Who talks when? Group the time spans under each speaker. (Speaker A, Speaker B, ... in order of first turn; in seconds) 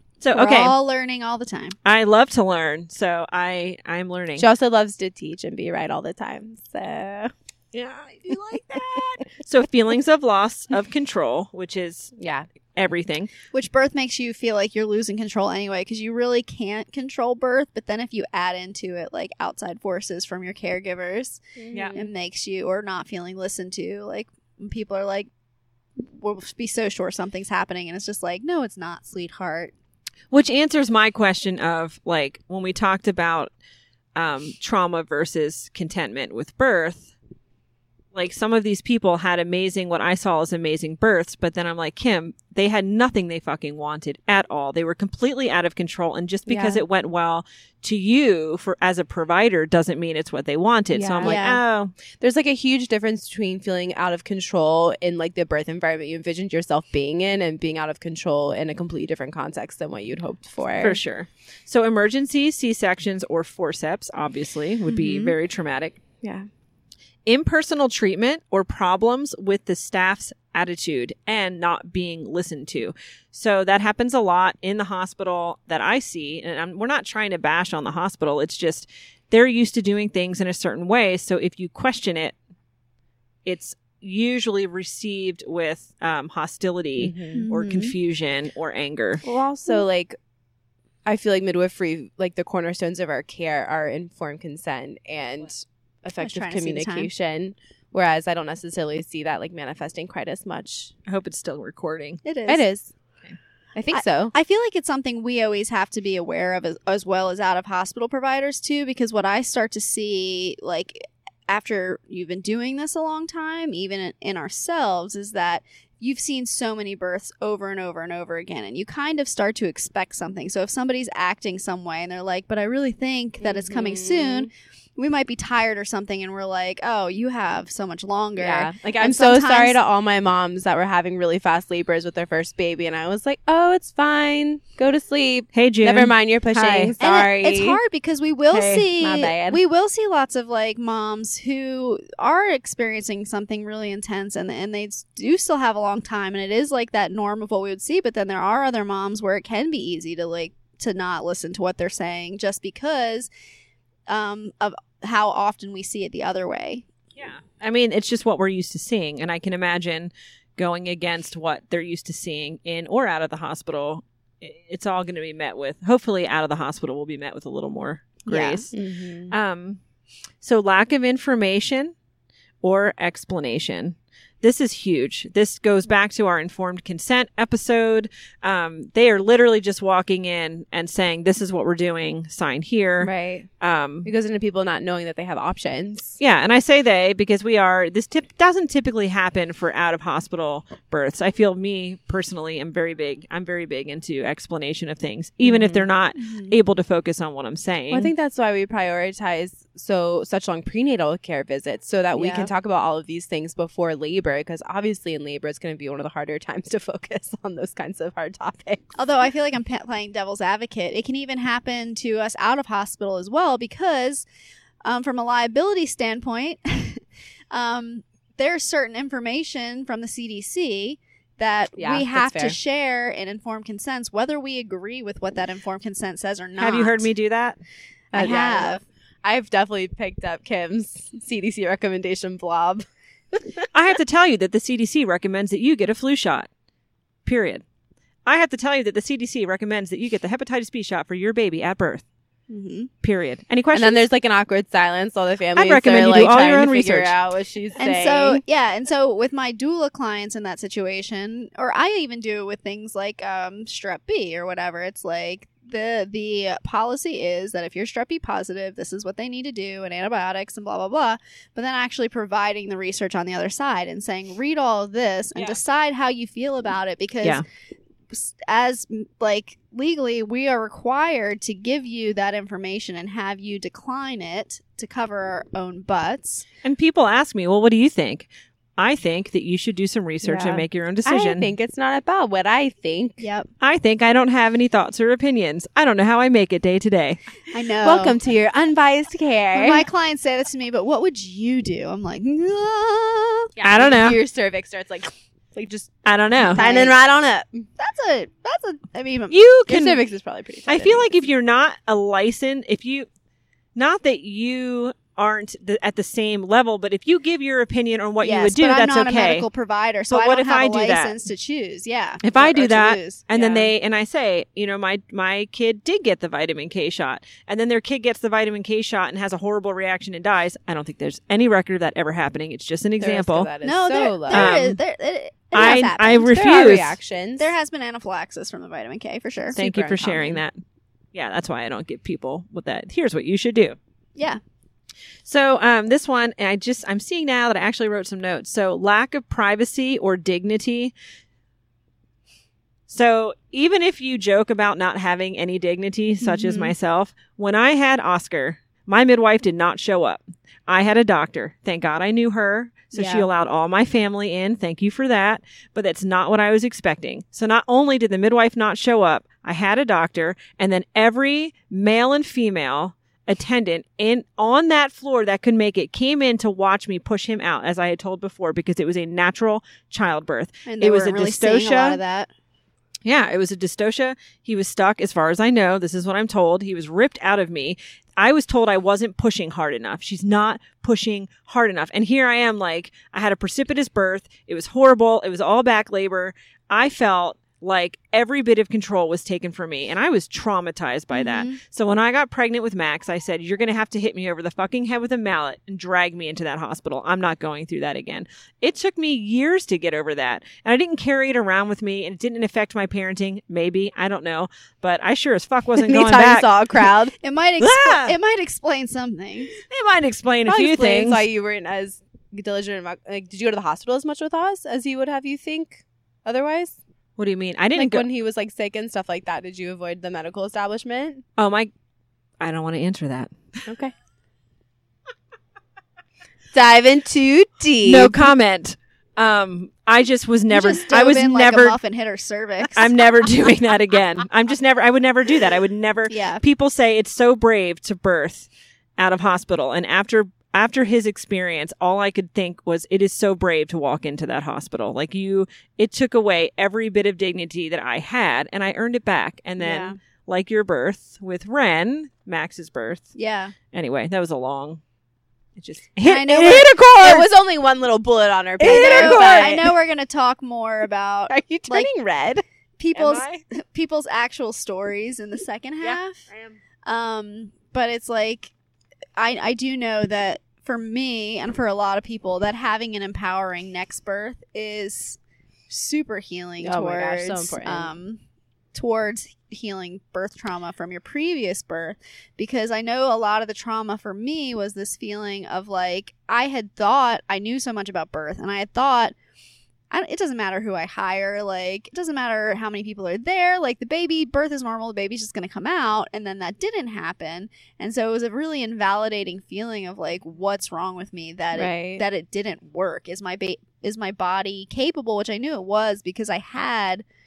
Speaker A: 0.2-0.7, 1.8-4.5, 7.7-12.1, 12.7-13.3, 30.3-33.5, 34.1-37.1, 38.1-51.9, 60.8-66.0, 67.2-82.3, 83.4-89.2, 101.0-102.2, 135.5-136.9, 138.5-138.9, 157.2-169.8, 170.4-171.9, 172.6-184.1, 186.2-198.1, 226.6-227.6, 233.7-236.5, 237.2-237.6, 238.2-242.0, 243.0-244.0, 245.5-247.2, 276.6-281.5, 283.6-287.2, 293.6-294.2, 296.0-296.6, 299.3-300.0, 300.7-303.1, 303.7-309.4, 310.1-311.1, 312.2-323.5, 324.3-324.8, 325.5-327.0, 329.6-330.6, 331.1-333.8, 335.2-340.9, 342.9-372.0, 373.0-406.5, 407.6-408.1, 409.6-411.2, 417.2-418.1, 421.4-421.7, 422.4-423.3, 427.8-431.8, 432.7-453.1, 453.7-454.8, 455.6-457.3, 458.6-459.6, 462.9-463.4
Speaker B: 0.3-1.8, 13.5-21.4, 21.9-25.3, 26.0-29.7, 51.2-51.6, 64.9-65.3, 87.3-87.9, 96.2-97.1, 102.2-102.6, 103.9-129.8, 137.0-153.3, 154.1-156.8, 168.3-168.7, 196.2-196.5, 202.1-202.5, 208.9-214.2, 214.8-227.1, 228.1-228.8, 242.5-242.9, 247.8-267.4, 268.1-276.4, 283.2-283.5, 287.5-288.2, 289.5-293.5, 296.5-296.9, 297.8-299.4, 308.2-313.2, 323.6-326.6, 327.4-330.3, 346.2-346.7, 352.9-353.3, 370.6-372.3, 391.1-391.6, 407.2-409.6, 430.5-432.9, 436.1-436.4, 449.6-449.9, 453.1-453.5, 456.0-456.7, 458.6-461.9, 462.8-466.2, 466.8-468.5, 469.2-475.2, 475.7-478.2, 478.7-489.1, 489.9-507.0
Speaker C: 4.4-7.3, 12.2-12.5, 21.6-22.1, 46.5-46.8, 50.9-51.5, 52.2-61.0, 66.2-66.5, 87.0-87.5, 89.2-90.2, 91.0-100.9, 102.5-102.9, 103.7-104.3, 123.4-124.5, 128.4-137.8, 139.0-139.6, 168.7-169.3, 183.0-183.5, 184.0-186.2, 195.4-195.8, 197.9-208.8, 221.8-222.6, 228.1-232.9, 243.7-248.4, 280.2-283.2, 287.8-289.8, 293.6-295.9, 296.4-297.6, 299.7-301.1, 313.3-313.7, 323.0-324.6, 326.3-327.5, 329.6-330.2, 405.8-407.1, 410.5-416.8, 417.8-421.2, 423.6-423.9, 426.5-428.2, 457.0-459.7, 461.3-462.4, 476.6-477.9, 501.5-502.0